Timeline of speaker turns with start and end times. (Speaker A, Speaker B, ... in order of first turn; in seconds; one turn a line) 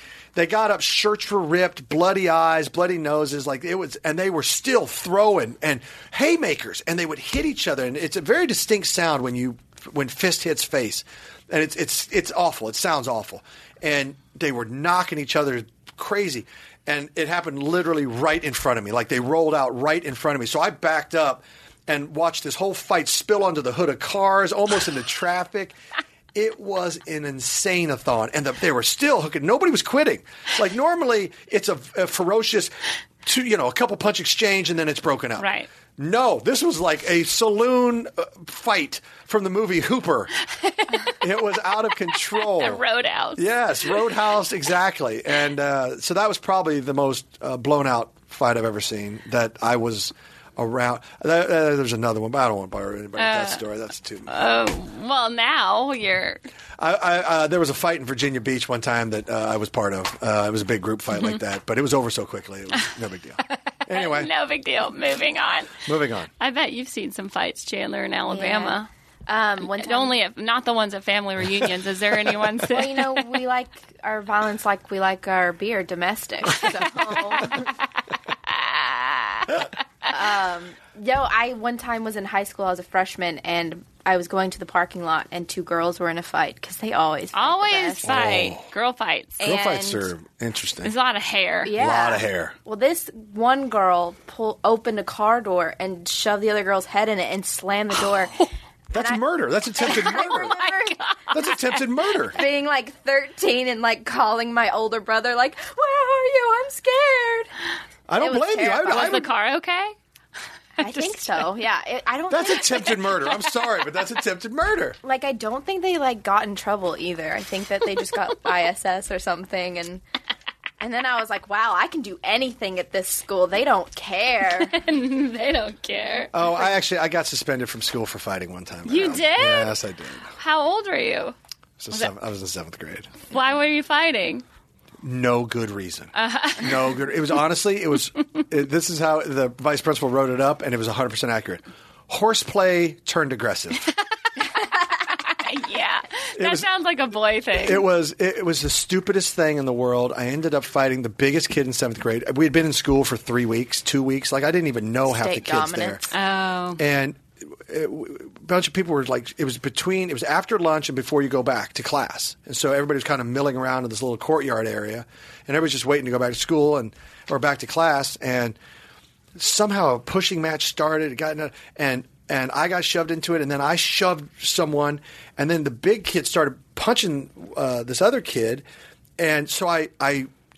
Speaker A: 0.3-25.7
Speaker A: 26.3-40.3
Speaker B: 35.4-35.7
Speaker B: 40.7-41.2
Speaker A: 41.2-42.8
Speaker B: 42.3-44.0
Speaker A: 43.4-54.3
Speaker B: 53.2-53.6
Speaker B: 54.3-56.4
Speaker A: 56.8-64.3
Speaker B: 63.9-65.8
Speaker A: 65.8-66.3
Speaker B: 66.4-68.9
Speaker C: 68.3-70.2
Speaker B: 69.6-73.2
Speaker C: 72.7-77.7
Speaker C: 80.0-88.2
Speaker B: 87.3-89.7
Speaker A: 88.0-88.6
Speaker C: 89.4-90.0
Speaker A: 89.4-90.9
Speaker B: 90.8-91.7
Speaker C: 91.6-99.2
Speaker A: 91.8-92.5
Speaker A: 98.9-100.6
Speaker C: 99.8-101.1
Speaker B: 99.8-101.5
Speaker A: 101.3-102.4
Speaker C: 102.3-107.5
Speaker A: 108.1-109.2
Speaker C: 108.1-109.3
Speaker B: 108.8-109.9
Speaker B: 110.8-111.4
Speaker C: 110.8-113.0
Speaker A: 112.3-115.0
Speaker C: 115.0-120.0
Speaker C: 120.8-124.8
Speaker B: 124.6-126.4
Speaker A: 126.3-130.3
Speaker B: 128.9-129.8
Speaker B: 130.3-131.3
Speaker A: 131.8-133.1
Speaker B: 133.3-134.4
Speaker A: 135.0-143.8
Speaker B: 136.1-137.1
Speaker B: 145.3-147.8
Speaker A: 146.4-146.7
Speaker A: 147.6-156.0
Speaker C: 155.1-156.1
Speaker B: 156.1-156.8
Speaker A: 156.8-168.6
Speaker A: 169.3-178.6
Speaker A: 179.2-180.3